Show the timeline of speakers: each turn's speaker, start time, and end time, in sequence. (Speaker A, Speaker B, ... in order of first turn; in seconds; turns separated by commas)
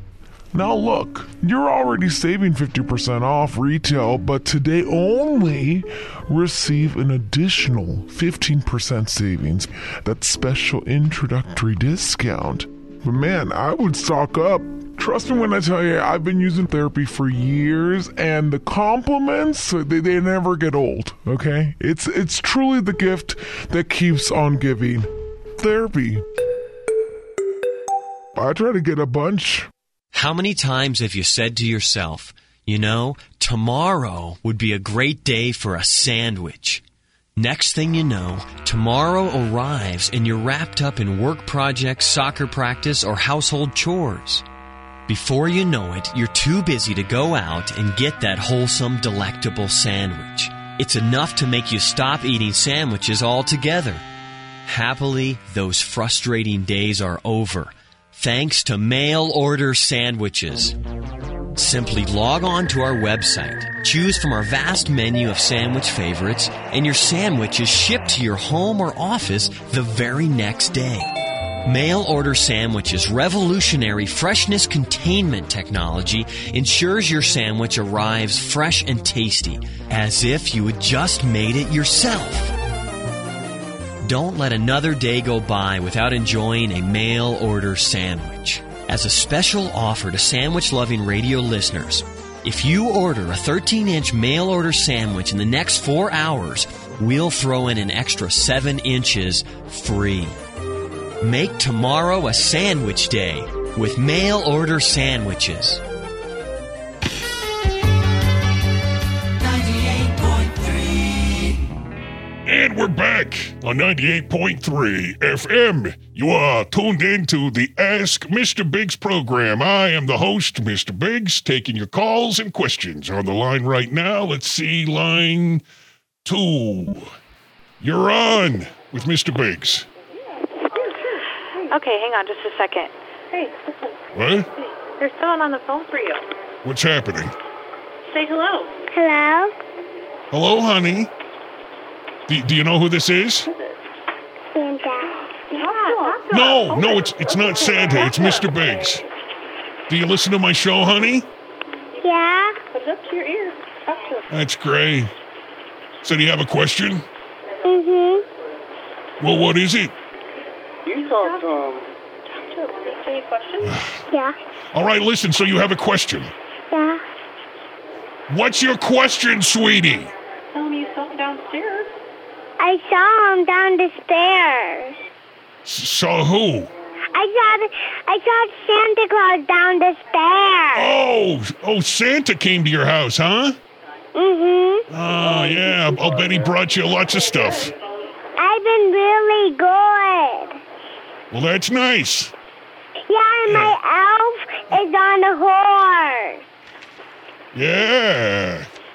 Speaker A: 0.5-26.2, Speaker A: 28.3-29.7, Speaker B: 30.1-36.8, Speaker B: 37.4-44.4, Speaker B: 45.1-54.0, Speaker B: 54.6-60.8, Speaker B: 61.5-71.1, Speaker B: 71.6-82.5, Speaker B: 84.0-100.4, Speaker B: 101.2-105.8, Speaker C: 112.4-125.6, Speaker C: 126.2-127.1, Speaker C: 127.8-129.9, Speaker D: 131.7-133.6, Speaker C: 134.1-134.5, Speaker D: 135.0-136.2, Speaker C: 136.6-137.3, Speaker D: 138.1-138.8, Speaker E: 138.9-139.5, Speaker C: 140.3-141.1, Speaker C: 142.3-143.5, Speaker E: 144.5-145.2, Speaker D: 145.5-148.4, Speaker C: 146.3-149.0, Speaker C: 149.9-151.3, Speaker E: 152.0-152.5, Speaker D: 152.7-154.2, Speaker C: 154.3-155.1, Speaker C: 156.0-157.1, Speaker E: 157.7-158.2, Speaker C: 159.2-159.9, Speaker D: 160.9-161.7, Speaker D: 162.3-163.8, Speaker C: 163.6-163.9, Speaker C: 164.7-166.3, Speaker E: 166.7-167.0, Speaker C: 168.3-170.1, Speaker D: 170.5-171.9, Speaker E: 172.6-174.9, Speaker C: 175.6-176.7, Speaker E: 177.1-180.9, Speaker C: 180.7-183.6, Speaker E: 184.1-184.8, Speaker C: 184.9-187.7, Speaker E: 188.4-190.5, Speaker C: 191.3-192.3, Speaker E: 193.1-196.4, Speaker C: 193.5-193.7, Speaker C: 197.5-198.7